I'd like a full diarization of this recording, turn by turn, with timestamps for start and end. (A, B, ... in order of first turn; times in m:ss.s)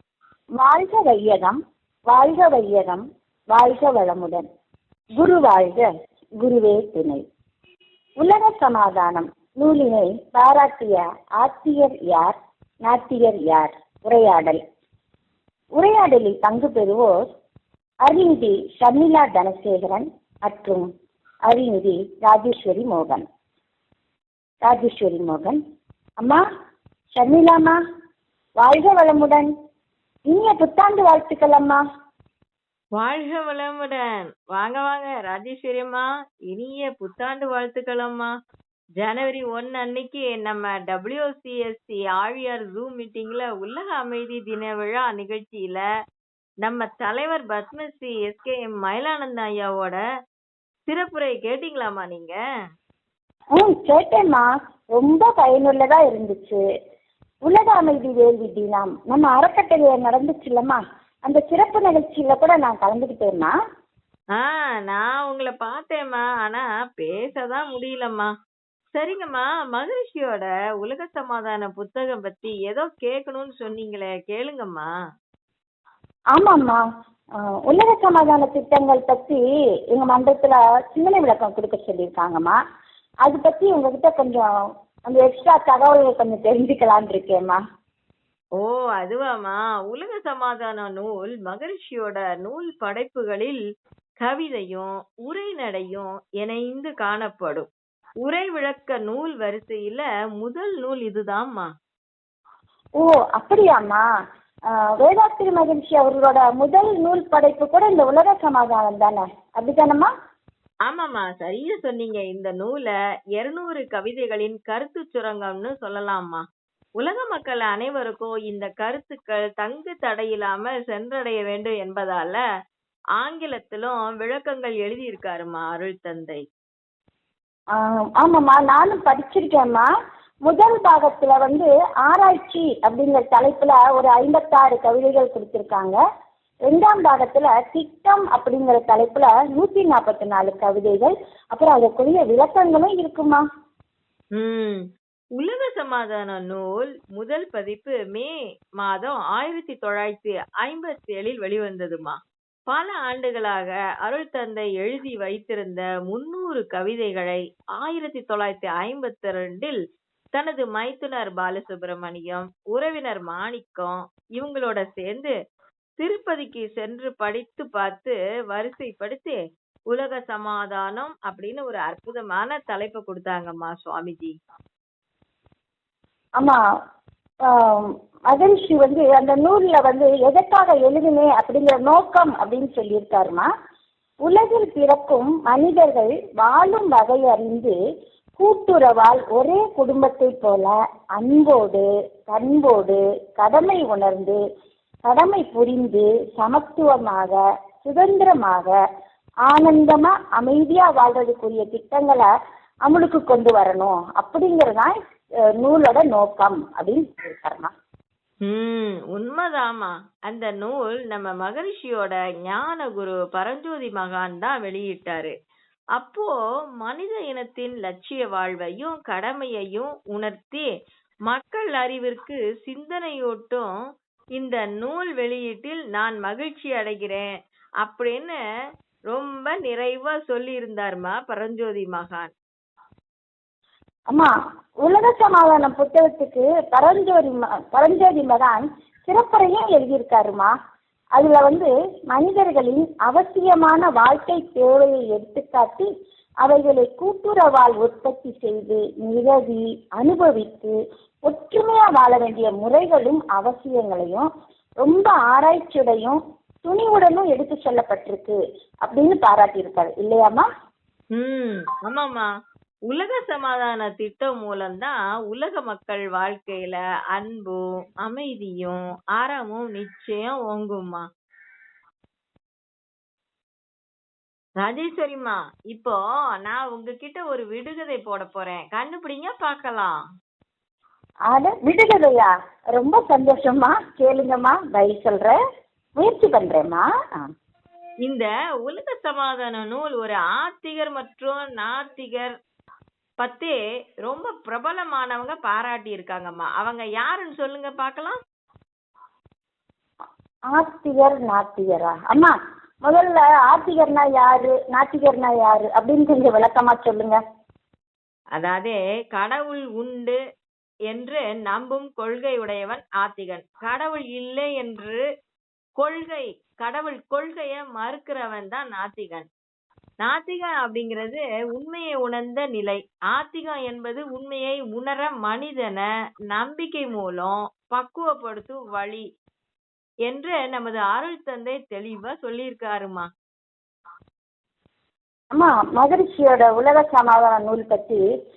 0:00.6-0:01.6 A
0:02.1-0:04.4 A
0:05.2-0:05.8 A
0:06.4-0:07.2 A
0:08.2-0:14.6 A
0:15.8-0:17.1 A
0:18.0-0:20.8 A
0:21.5-0:23.2 A
0:24.7-0:25.6 A
0:27.2-0:27.8 A
0:28.6-0:29.5 A
0:30.3-0:31.8 A
0:33.0-0:38.3 B
0:39.0-0:45.8 B
0:46.6-0:50.0 B
0:50.9-0:52.4 B
0:53.6-0:56.6 A
0:57.5-1:03.5 A
1:04.3-1:08.3 B
1:09.0-1:14.9 B
1:16.3-1:16.8 A
1:17.6-1:19.4 A
1:19.9-1:22.6 A
1:23.2-1:24.5 A
1:25.1-1:27.6 A
1:28.6-1:33.6 B
1:34.2-1:37.7 B
1:38.2-1:41.7 B
1:43.0-1:44.0 A
1:44.7-1:50.1 A
1:50.9-1:56.4 B
1:57.0-2:02.4 B
2:03.2-2:06.4 B
2:07.8-2:09.9 A
2:10.5-2:16.0 A
2:16.7-2:23.4 A
2:24.3-2:24.8 B
2:25.4-2:32.2 B
2:32.7-2:39.8 B
2:40.3-2:45.3 B
2:46.0-2:49.4 B
2:49.9-2:54.3 B
2:57.5-3:03.5 A
3:04.2-3:07.8 A
3:08.4-3:14.4 A
3:15.0-3:18.7 A
3:19.5-3:22.3 A
3:22.8-3:24.9 A
3:25.6-3:27.7 A
3:28.4-3:35.3 B
3:36.0-3:40.7 B
3:41.3-3:43.7 B
3:44.4-3:47.3 B
3:47.8-3:48.4 B
3:49.1-3:52.3 B
3:54.8-4:00.5 A
4:01.2-4:05.9 A
4:06.4-4:10.8 A
4:11.3-4:14.3 A
4:14.8-4:20.4 A
4:21.2-4:22.3 B
4:22.9-4:31.1 B
4:34.6-4:40.0 B
4:41.3-4:45.4 A
4:46.0-4:46.8 A
4:48.0-4:52.3 B
4:53.2-4:58.2 B
5:00.5-5:02.3 A
5:02.8-5:07.2 A
5:08.4-5:10.2 B
5:10.9-5:15.0 B
5:15.8-5:19.3 B
5:20.0-5:29.0 B
5:30.1-5:33.1 B
5:35.3-5:38.0 A